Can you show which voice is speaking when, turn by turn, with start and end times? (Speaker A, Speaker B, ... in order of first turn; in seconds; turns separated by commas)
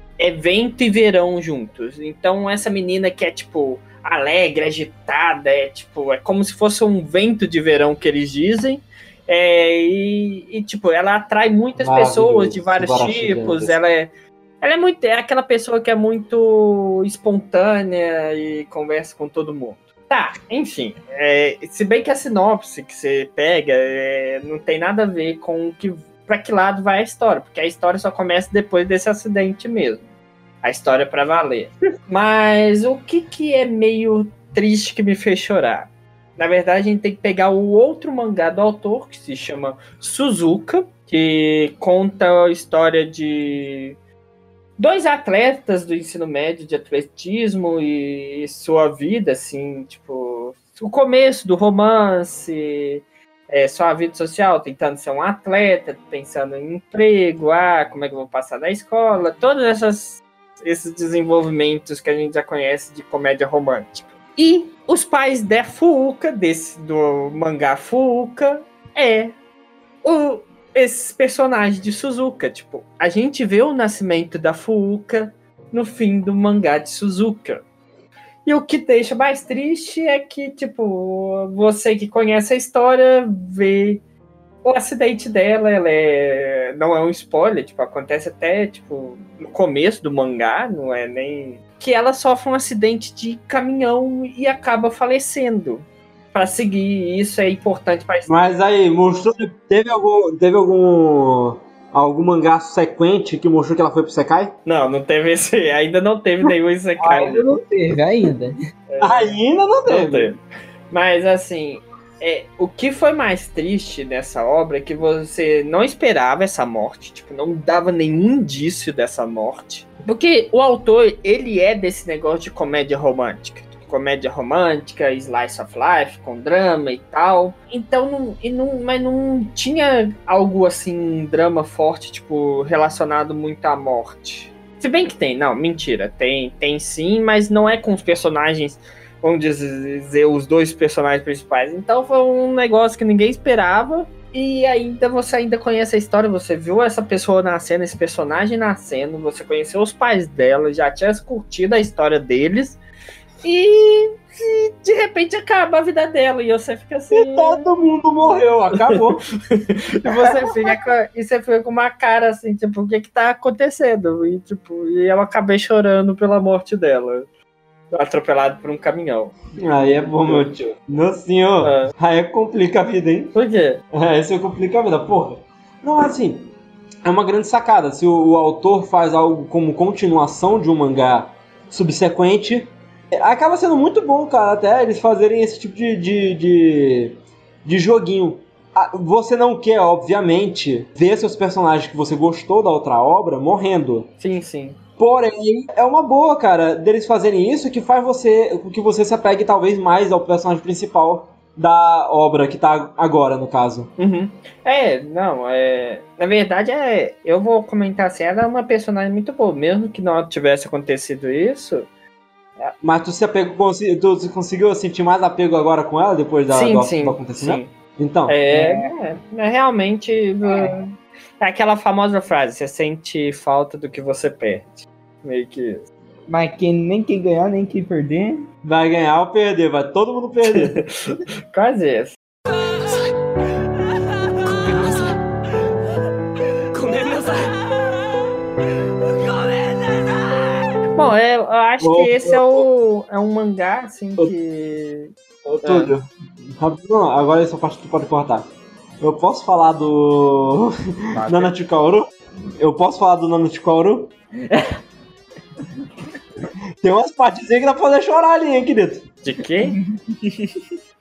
Speaker A: 0.2-30.1, Speaker B: 11.8-13.8, Speaker A: 30.6-44.0, Speaker A: 44.8-69.3, Speaker A: 70.0-77.6, Speaker A: 78.5-84.0, Speaker A: 84.6-98.3, Speaker B: 98.3-104.5, Speaker A: 104.7-107.6, Speaker C: 107.0-108.6, Speaker A: 108.9-110.4, Speaker B: 109.0-110.3, Speaker A: 110.9-152.8, Speaker A: 153.4-157.6, Speaker B: 157.1-159.2, Speaker A: 158.7-167.3, Speaker A: 167.9-169.4, Speaker B: 169.6-173.4, Speaker A: 170.2-170.4, Speaker A: 171.6-171.9, Speaker A: 173.3-173.8, Speaker B: 173.9-176.5, Speaker B: 177.0-194.1, Speaker A: 194.2-194.8, Speaker B: 195.0-203.9, Speaker A: 204.0-211.9, Speaker B: 212.8-218.4, Speaker A: 216.5-217.7, Speaker A: 218.3-225.9, Speaker C: 218.5-218.9, Speaker C: 220.4-220.8, Speaker C: 226.3-228.5, Speaker B: 228.6-230.8, Speaker A: 230.4-232.1, Speaker A: 240.9-245.9, Speaker B: 241.8-242.6, Speaker B: 245.4-246.1, Speaker B: 246.6-248.5, Speaker B: 249.0-254.1, Speaker C: 251.2-251.5, Speaker C: 254.5-254.7, Speaker B: 256.8-259.1, Speaker A: 259.2-260.6, Speaker C: 259.6-260.0